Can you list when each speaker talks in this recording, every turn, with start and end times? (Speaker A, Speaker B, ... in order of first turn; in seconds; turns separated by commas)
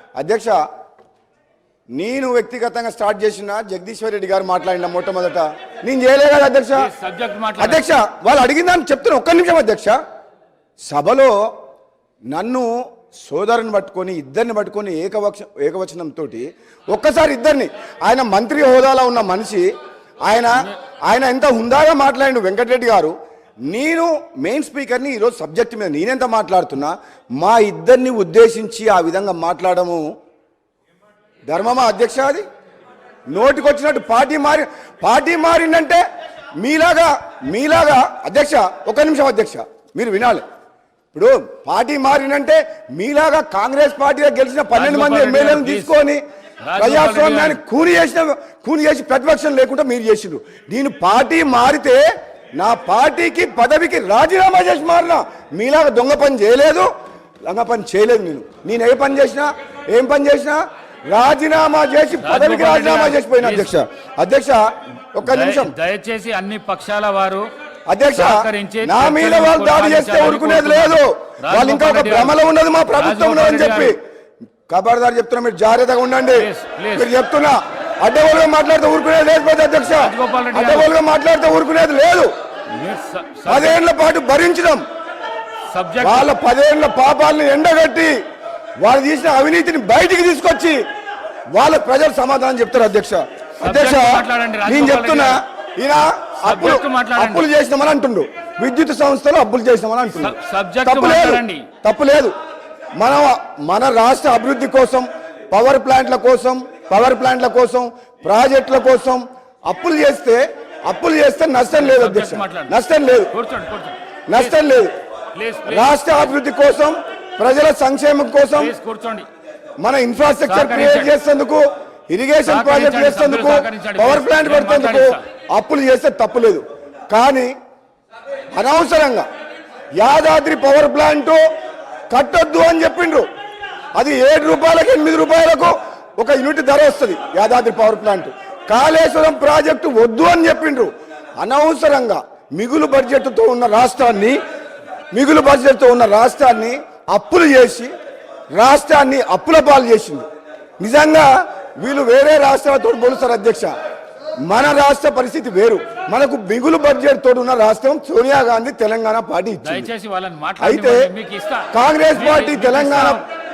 Speaker A: 0.2-0.6, Speaker A: 2.0-6.9, Speaker B: 6.8-7.8, Speaker A: 7.6-10.0, Speaker A: 10.9-11.3, Speaker A: 12.3-19.7, Speaker A: 20.2-23.1, Speaker A: 23.7-30.0, Speaker A: 31.5-32.4, Speaker A: 33.3-36.0, Speaker A: 36.6-40.4, Speaker A: 41.1-46.2, Speaker B: 44.7-45.9, Speaker B: 46.6-47.6, Speaker A: 46.8-52.0, Speaker A: 52.6-56.9, Speaker A: 57.5-64.6, Speaker B: 62.2-63.8, Speaker A: 65.2-65.7, Speaker B: 65.2-67.5, Speaker A: 67.9-74.0, Speaker B: 68.1-72.4, Speaker B: 73.0-73.9, Speaker A: 74.7-82.3, Speaker B: 76.3-77.1, Speaker B: 79.9-80.9, Speaker B: 82.7-83.8, Speaker A: 83.5-84.8, Speaker B: 85.7-86.3, Speaker A: 86.0-88.1, Speaker A: 88.8-90.8, Speaker A: 91.5-102.3, Speaker B: 93.6-95.4, Speaker B: 96.5-97.5, Speaker B: 100.1-101.6, Speaker A: 103.0-113.3, Speaker B: 111.7-112.8, Speaker B: 113.3-114.7, Speaker A: 114.3-114.9, Speaker B: 115.3-116.3, Speaker A: 115.7-118.7, Speaker B: 118.5-119.3, Speaker A: 119.8-127.5, Speaker B: 120.4-121.1, Speaker B: 122.4-125.2, Speaker A: 128.5-129.2, Speaker A: 130.0-131.4, Speaker A: 132.1-133.2, Speaker A: 133.9-144.4, Speaker A: 145.1-147.9, Speaker A: 148.6-150.3, Speaker A: 150.8-153.7, Speaker A: 154.5-159.9, Speaker B: 159.6-163.2, Speaker A: 160.6-161.1, Speaker A: 161.7-163.2